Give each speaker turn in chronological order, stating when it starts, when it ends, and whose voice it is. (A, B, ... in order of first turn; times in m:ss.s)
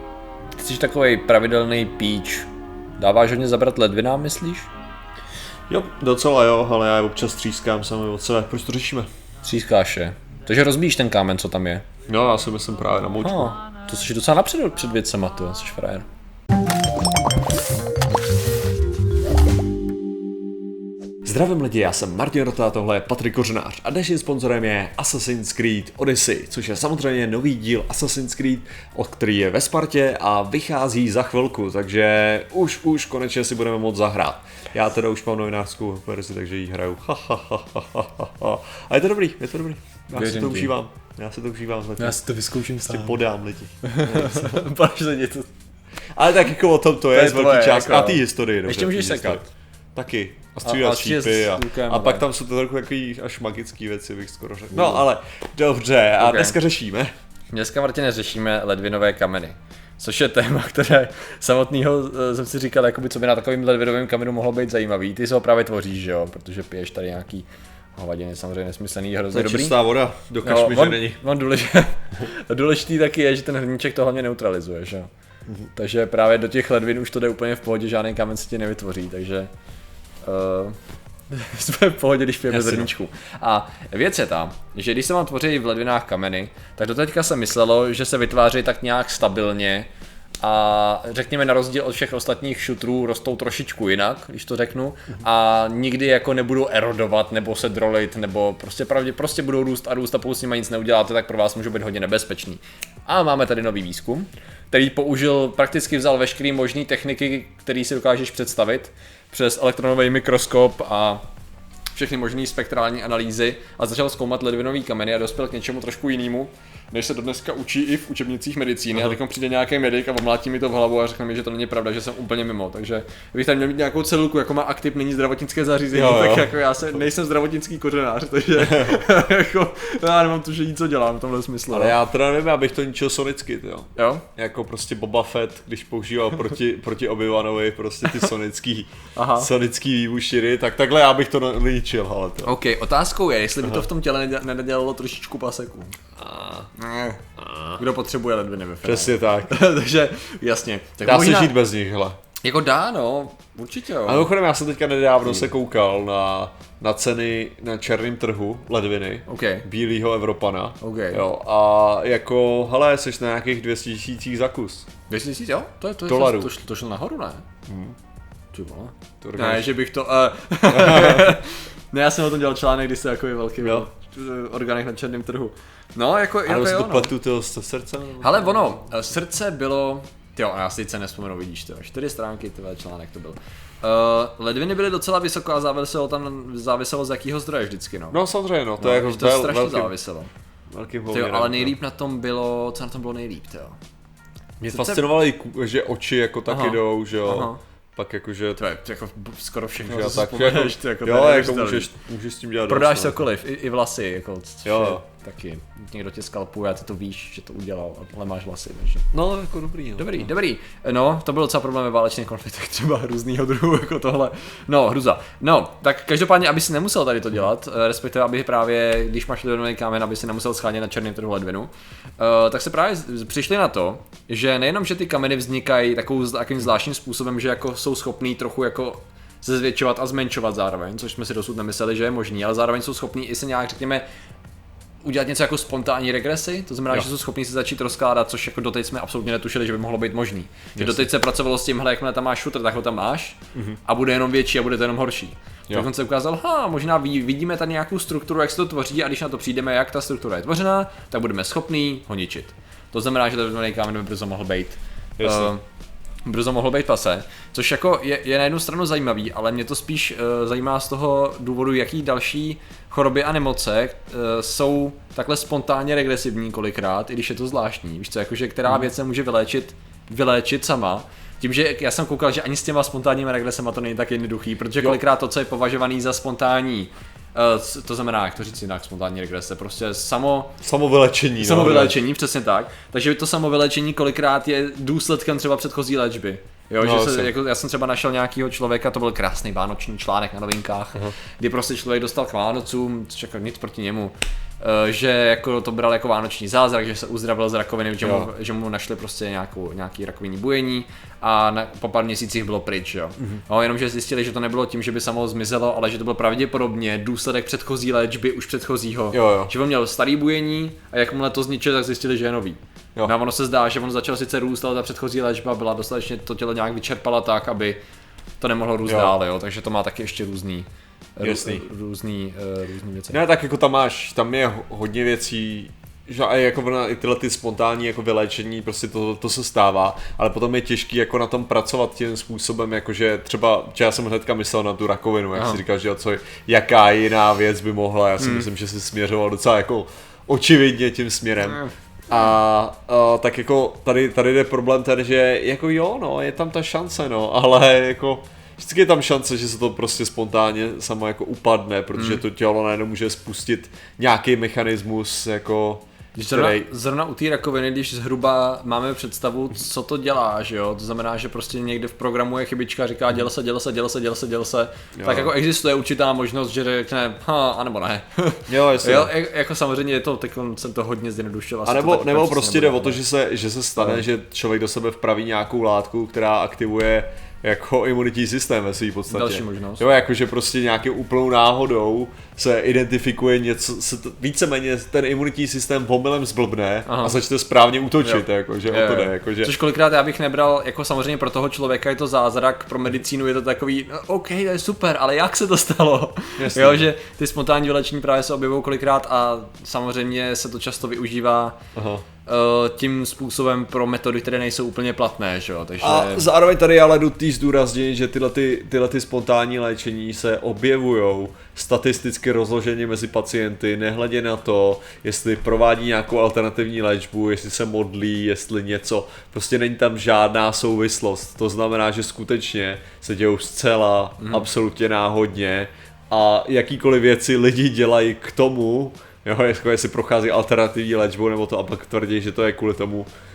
0:00.6-0:04.7 A
0:05.7-0:09.1 B
0:09.4-0:11.9 A
0:12.0-0:13.5 B
0:13.2-0:16.0 A
0:21.2-0:44.6 B
0:40.1-0:40.7 A
0:42.0-0:43.2 A
0:43.8-0:45.5 A
0:46.1-0:49.4 B
0:47.1-0:49.5 A
0:49.9-0:57.1 B
0:50.6-0:52.2 A
0:54.7-0:55.0 A
0:56.2-0:56.6 A
0:57.5-1:09.8 A
1:09.3-1:11.2 B
1:10.4-1:15.1 A
1:15.7-1:19.5 A
1:20.2-1:20.8 A
1:21.3-1:29.9 A
1:22.5-1:22.9 B
1:30.4-1:51.2 A
1:51.9-2:12.0 A
2:05.9-2:07.0 B
2:08.5-2:09.0 B
2:11.7-2:22.5 B
2:14.0-2:14.2 A
2:19.1-2:19.5 A
2:22.4-2:26.0 A
2:26.2-2:26.7 B
2:26.8-2:27.2 A
2:27.4-2:27.8 B
2:27.8-2:31.6 A
2:28.8-2:29.6 B
2:31.0-2:32.2 B
2:32.4-2:34.3 A
2:34.0-2:44.9 B
2:35.2-2:35.5 A
2:39.3-2:39.6 A
2:40.8-2:41.2 A
2:45.1-2:47.4 A
2:46.1-2:46.5 B
2:47.7-2:48.0 B
2:48.5-2:57.1 A
2:49.2-2:49.7 B
2:50.7-2:51.4 B
2:53.6-2:53.9 B
2:56.4-2:58.9 B
2:58.2-3:08.2 A
3:08.1-3:09.9 B
3:08.8-3:10.3 A
3:10.7-3:11.7 B
3:11.1-3:13.8 A
3:14.6-3:18.6 B
3:14.7-3:15.0 A
3:16.5-3:17.6 A
3:18.6-3:21.9 A
3:19.8-3:23.2 B
3:22.7-3:29.1 A
3:24.6-3:25.0 B
3:29.1-3:30.3 B
3:30.0-3:54.0 A
3:55.0-4:15.6 A
4:00.8-4:01.1 B
4:03.5-4:03.8 B
4:15.2-4:15.5 B
4:16.2-4:40.6 A
4:40.6-4:42.0 B
4:41.4-5:17.8 A
4:46.8-4:47.3 B
4:58.0-4:58.3 B
5:09.1-5:09.5 B
5:18.4-5:23.2 A
5:18.8-5:19.1 B
5:21.2-5:21.7 B
5:23.1-5:56.7 B
5:35.3-5:35.6 A
5:38.2-5:38.5 A
5:41.4-5:41.7 A
5:52.0-5:52.2 A
5:56.1-6:13.0 A
6:05.0-6:05.3 B
6:08.5-6:09.1 B
6:11.6-6:29.5 B
6:13.8-6:14.0 A
6:19.1-6:19.8 A
6:26.9-6:27.2 A
6:28.0-6:41.6 A
6:36.4-6:36.9 B
6:41.7-6:42.0 B
6:42.2-6:46.3 A
6:45.8-7:13.1 B
7:04.2-7:04.5 A